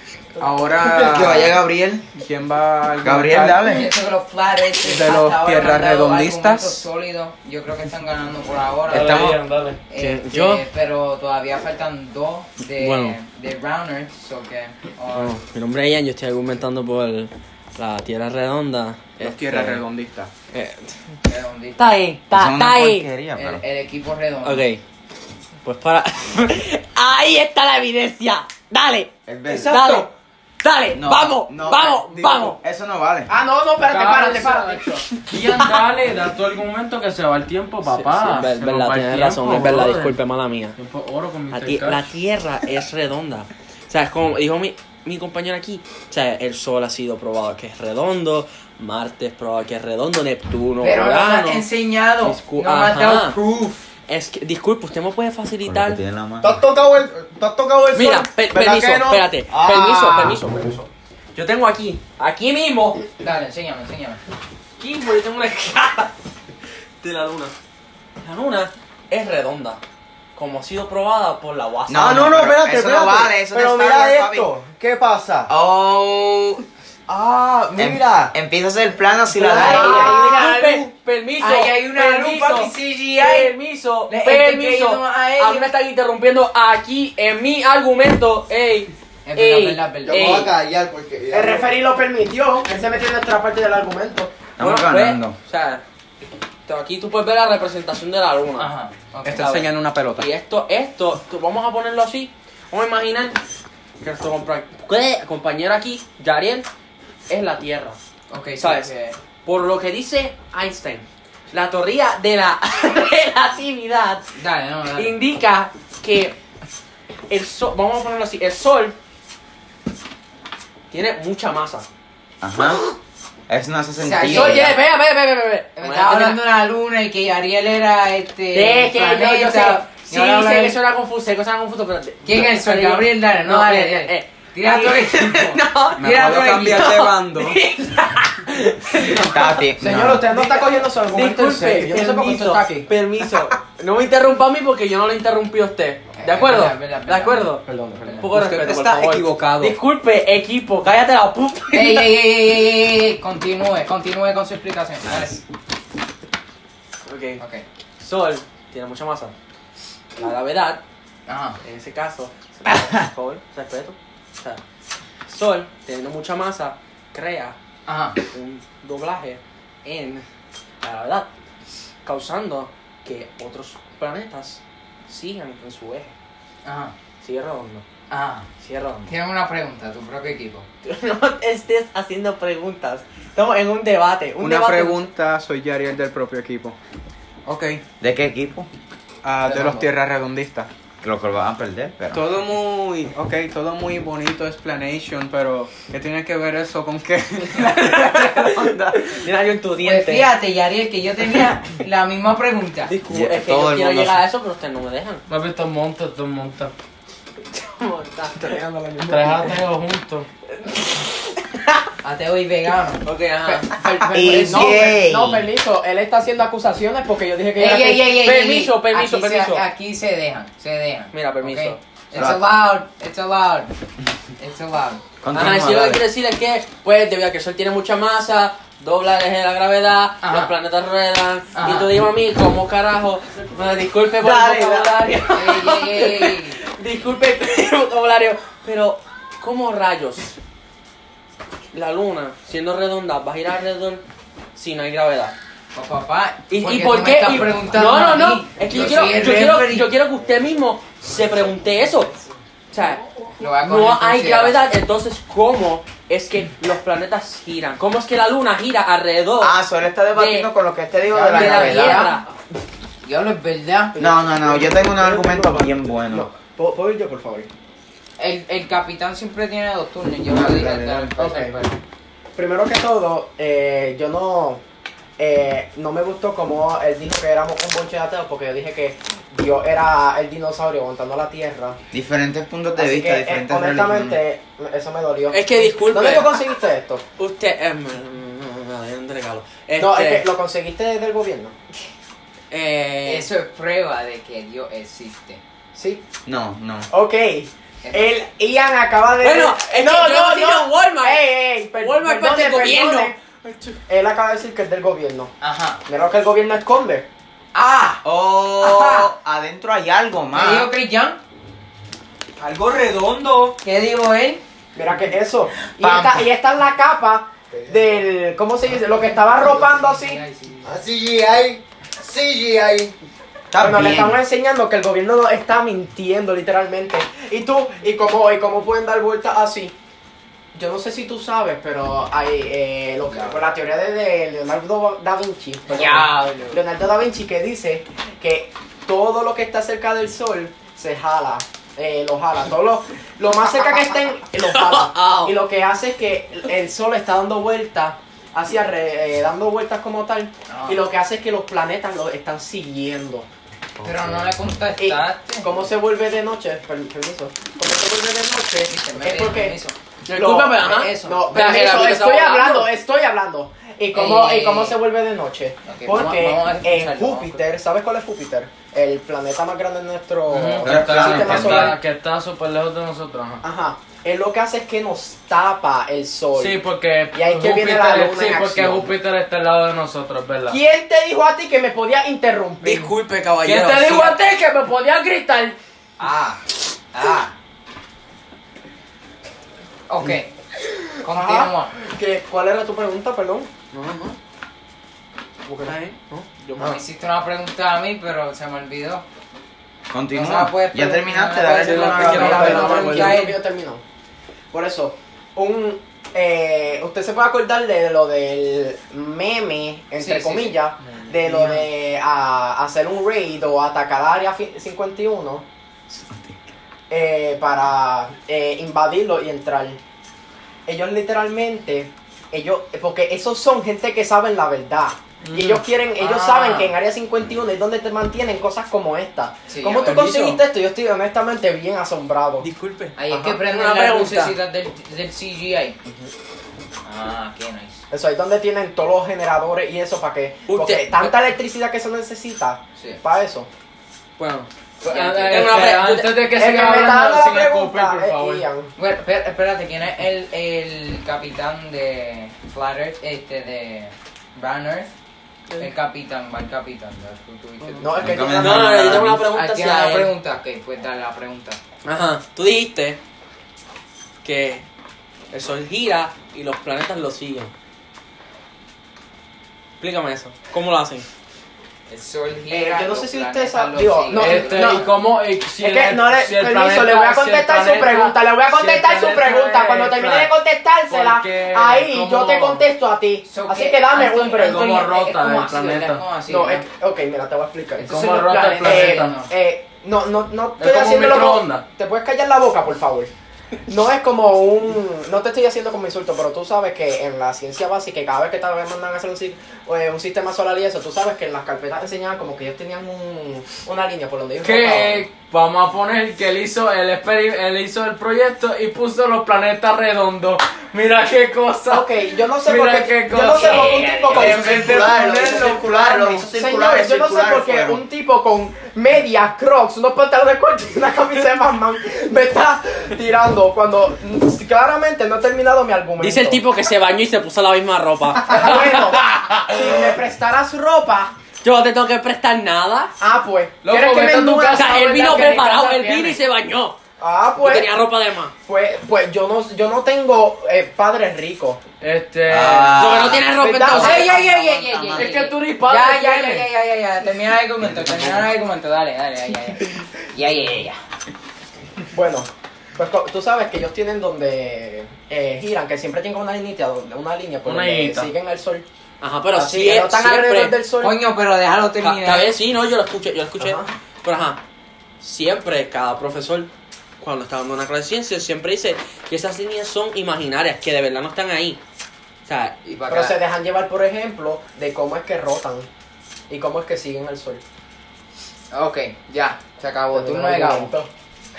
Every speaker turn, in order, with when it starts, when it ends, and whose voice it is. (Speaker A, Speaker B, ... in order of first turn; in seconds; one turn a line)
Speaker A: 0.4-1.6
Speaker B: 0.9-2.1
Speaker A: 2.1-3.8
Speaker B: 3.0-3.9
Speaker C: 3.6-9.3
Speaker A: 4.8-6.8
Speaker D: 8.9-9.8
Speaker B: 8.9-9.3
Speaker C: 9.9-15.4
Speaker E: 10.0-10.6
Speaker E: 12.8-13.2
Speaker E: 15.2-19.8
Speaker A: 19.2-20.3
Speaker E: 20.5-20.9
Speaker C: 21.2-21.8
Speaker E: 21.8-23.1
Speaker B: 22.3-23.6
Speaker C: 23.3-24.6
Speaker E: 24.4-24.8
Speaker E: 25.6-30.1
Speaker B: 29.3-29.8
Speaker F: 29.5-29.8
Speaker E: 30.6-32.6
Speaker B: 30.9-33.3
Speaker F: 32.2-32.5
Speaker G: 33.3-35.0
Speaker D: 33.8-40.2
Speaker E: 37.9-40.8
Speaker D: 40.8-42.1
Speaker E: 41.5-51.6
Speaker C: 50.8-53.5
Speaker E: 52.2-53.4
Speaker E: 54.1-56.0
Speaker B: 55.6-56.6
Speaker F: 56.4-60.9
Speaker E: 57.9-60.7
Speaker E: 61.4-63.0
Speaker C: 63.2-64.2
Speaker E: 64.8-66.1
Speaker E: 67.0-67.5
Speaker E: 68.2-69.8
Speaker E: 70.3-72.5
Speaker B: 71.9-74.5
Speaker F: 72.0-75.5
Speaker B: 75.5-76.6
Speaker F: 77.1-78.3
Speaker B: 77.8-80.1
Speaker F: 79.3-80.9
Speaker C: 79.6-80.7
Speaker E: 79.6-90.5
Speaker C: 81.4-83.5
Speaker C: 84.1-85.7
Speaker C: 89.3-90.5
Speaker F: 90.1-91.7
Speaker G: 91.3-94.3
Speaker B: 94.6-95.3
Speaker E: 94.6-95.8
Speaker E: 96.7-98.7
Speaker C: 98.6-99.7
Speaker A: 99.2-100.3
Speaker E: 100.2-103.4
Speaker E: 104.0-106.7
Speaker E: 107.3-108.0
Speaker C: 108.3-109.2
Speaker E: 108.6-108.9
Speaker E: 109.5-114.2
Speaker C: 114.4-115.1
Speaker E: 115.0-116.4
Speaker E: 117.3-119.0
Speaker E: 120.9-121.9
Speaker B: 122.4-122.8
Speaker B: 123.5-124.8
Speaker C: 124.0-124.8
Speaker E: 124.2-126.4
Speaker C: 125.8-130.8
Speaker E: 128.5-139.7
Speaker C: 132.2-137.0
Speaker A: 136.0-137.6
Speaker B: 139.2-140.2
Speaker G: 139.8-142.9
Speaker E: 140.3-147.7
Speaker C: 146.2-148.3
Speaker G: 147.7-148.2
Speaker E: 148.2-152.1
Speaker A: 148.3-149.8
Speaker C: 151.7-155.4
Speaker E: 157.1-157.4
Speaker C: 157.4-157.6
Speaker E: 158.0-159.3
Speaker E: 160.2-160.8
Speaker C: 161.3-161.6
Speaker E: 161.6-164.6
Speaker E: 165.3-167.6
Speaker C: 167.9-168.2
Speaker E: 168.3-170.2
Speaker E: 170.8-171.3
Speaker E: 172.0-176.2
Speaker C: 176.7-176.9
Speaker E: 177.2-177.8
Speaker C: 178.1-178.5
Speaker E: 178.6-179.1
Speaker C: 179.1-180.7
Speaker E: 180.8-185.1
Speaker A: 184.4-186.8
Speaker A: 187.5-187.8
Speaker B: 188.0-188.7
Speaker A: 189.2-190.7
Speaker E: 189.6-189.8
Speaker B: 191.0-192.3
Speaker A: 192.1-198.1
Speaker E: 197.6-200.3
Speaker C: 199.8-202.9
Speaker E: 202.9-205.2
Speaker B: 203.1-204.2
Speaker D: 205.3-206.7
Speaker E: 207.5-208.6
Speaker G: 208.4-209.6
Speaker D: 209.0-210.3
Speaker C: 212.0-214.4
Speaker E: 213.0-214.2
Speaker G: 213.9-218.2
Speaker B: 214.1-215.4
Speaker C: 217.6-223.7
Speaker E: 217.9-219.6
Speaker E: 221.1-221.8
Speaker B: 222.1-222.5
Speaker C: 224.4-225.0
Speaker B: 225.2-226.0
Speaker E: 225.3-240.4
Speaker C: 230.2-230.5
Speaker C: 231.5-231.9
Speaker B: 234.2-234.9
Speaker C: 235.3-236.6
Speaker E: 241.7-244.0
Speaker E: 244.6-245.3
Speaker C: 245.8-249.9
Speaker E: 246.5-252.1
Speaker E: 252.7-253.1
Speaker C: 253.4-254.6
Speaker E: 253.6-259.6
Speaker B: 259.4-262.1
Speaker E: 260.1-260.5
Speaker C: 261.1-262.2
Speaker E: 261.3-262.2
Speaker C: 263.0-264.0
Speaker G: 263.9-267.5
Speaker B: 264.0-266.3
Speaker C: 268.2-271.8
Speaker B: 270.3-271.1
Speaker G: 271.2-271.6
Speaker G: 272.4-274.6
Speaker G: 275.2-281.8
Speaker B: 281.9-284.2
Speaker G: 282.8-287.0
Speaker E: 285.3-286.4
Speaker E: 287.2-290.3
Speaker G: 289.8-291.6
Speaker E: 292.5-293.3
Speaker C: 293.1-295.4
Speaker G: 295.8-296.0
Speaker B: 296.2-296.9
Speaker G: 296.9-303.2
Speaker C: 297.8-298.1
Speaker E: 299.2-303.6
Speaker G: 303.9-305.3
Speaker C: 305.4-305.8
Speaker G: 305.9-307.1
Speaker C: 307.6-308.0
Speaker B: 308.0-310.7
Speaker C: 308.6-309.1
Speaker C: 310.3-311.2
Speaker A: 312.5-313.5
Speaker C: 313.6-314.4
Speaker G: 314.8-320.2
Speaker C: 315.8-316.2
Speaker F: 317.5-317.8
Speaker C: 319.0-320.8
Speaker F: 320.6-322.9
Speaker B: 323.5-324.2
Speaker G: 323.6-329.8
Speaker G: 330.5-353.3
Speaker C: 333.1-333.5
Speaker C: 335.7-336.6
Speaker E: 344.5-345.3
Speaker C: 350.5-350.8
Speaker B: 353.8-354.1
Speaker C: 353.8-355.5
Speaker G: 354.8-359.6
Speaker C: 358.7-359.8
Speaker E: 360.1-362.7
Speaker G: 360.1-371.8
Speaker C: 360.6-361.4
Speaker C: 363.9-364.8
Speaker C: 365.7-367.4
Speaker D: 370.3-373.4
Speaker B: 370.6-371.8
Speaker G: 373.4-376.6
Speaker D: 376.4-380.6
Speaker G: 377.1-378.9
Speaker G: 380.5-382.9
Speaker E: 382.6-384.2
Speaker D: 383.4-385.6
Speaker C: 386.0-386.4
Speaker C: 386.9-387.4
Speaker C: 389.9-390.3
Speaker G: 390.8-393.5
Speaker C: 391.0-391.7
Speaker E: 393.7-394.2
Speaker E: 395.6-396.8
Speaker C: 396.6-399.1
Speaker B: 399.9-402.7
Speaker C: 400.1-403.4
Speaker E: 401.7-403.1
Speaker D: 401.7-403.2
Speaker G: 402.0-403.8
Speaker G: 404.5-415.5
Speaker C: 410.0-410.6
Speaker B: 415.9-416.4
Speaker G: 416.9-419.8
Speaker G: 420.7-432.5
Speaker C: 426.0-426.7
Speaker C: 429.5-430.0
Speaker E: 429.8-430.4
Speaker E: 432.4-434.4
Speaker C: 433.0-435.8
Speaker G: 433.1-433.4
Speaker C: 436.8-437.8
Speaker G: 437.9-443.5
Speaker E: 440.5-441.1
Speaker E: 444.2-446.2
Speaker D: 444.8-448.4
Speaker C: 444.9-445.6
Speaker G: 446.4-448.7
Speaker C: 448.8-454.9
Speaker C: 455.6-458.1
Speaker G: 457.8-459.0
Speaker B: 458.0-459.2
Speaker E: 458.4-460.1
Speaker C: 459.3-461.6
Speaker E: 461.8-463.0
Speaker E: 464.2-464.7
Speaker E: 465.3-467.5
Speaker E: 469.8-471.1
Speaker C: 471.9-474.9
Speaker G: 472.5-474.9
Speaker D: 474.1-480.3
Speaker G: 475.6-484.8
Speaker D: 480.9-482.7
Speaker C: 483.3-486.6
Speaker D: 484.3-486.1
Speaker G: 486.3-493.1
Speaker C: 487.8-489.3
Speaker D: 487.9-489.2
Speaker D: 490.6-491.6
Speaker G: 493.7-505.1
Speaker D: 504.4-511.9
Speaker G: 511.7-526.4
Speaker D: 512.4-515.6
Speaker B: 514.1-517.8
Speaker E: 526.0-529.7
Speaker G: 528.2-531.1
Speaker E: 531.4-532.9
Speaker G: 533.0-536.2
Speaker D: 533.6-535.3
Speaker E: 534.3-536.8
Speaker G: 537.0-537.7
Speaker E: 537.4-538.3
Speaker G: 538.5-541.6
Speaker D: 541.8-543.1
Speaker B: 542.3-545.2
Speaker E: 542.8-544.1
Speaker G: 543.4-544.1
Speaker C: 543.7-550.8
Speaker D: 544.9-546.5
Speaker B: 547.6-548.3
Speaker G: 551.9-558.7
Speaker D: 557.5-558.1
Speaker E: 559.0-560.6
Speaker G: 559.3-561.0
Speaker C: 560.8-562.3
Speaker E: 561.8-564.4
Speaker G: 563.4-563.7
Speaker E: 565.0-571.6
Speaker E: 572.3-572.6
Speaker C: 572.7-573.2
Speaker G: 572.9-575.7
Speaker G: 576.3-577.4
Speaker C: 578.5-580.7
Speaker G: 579.9-580.9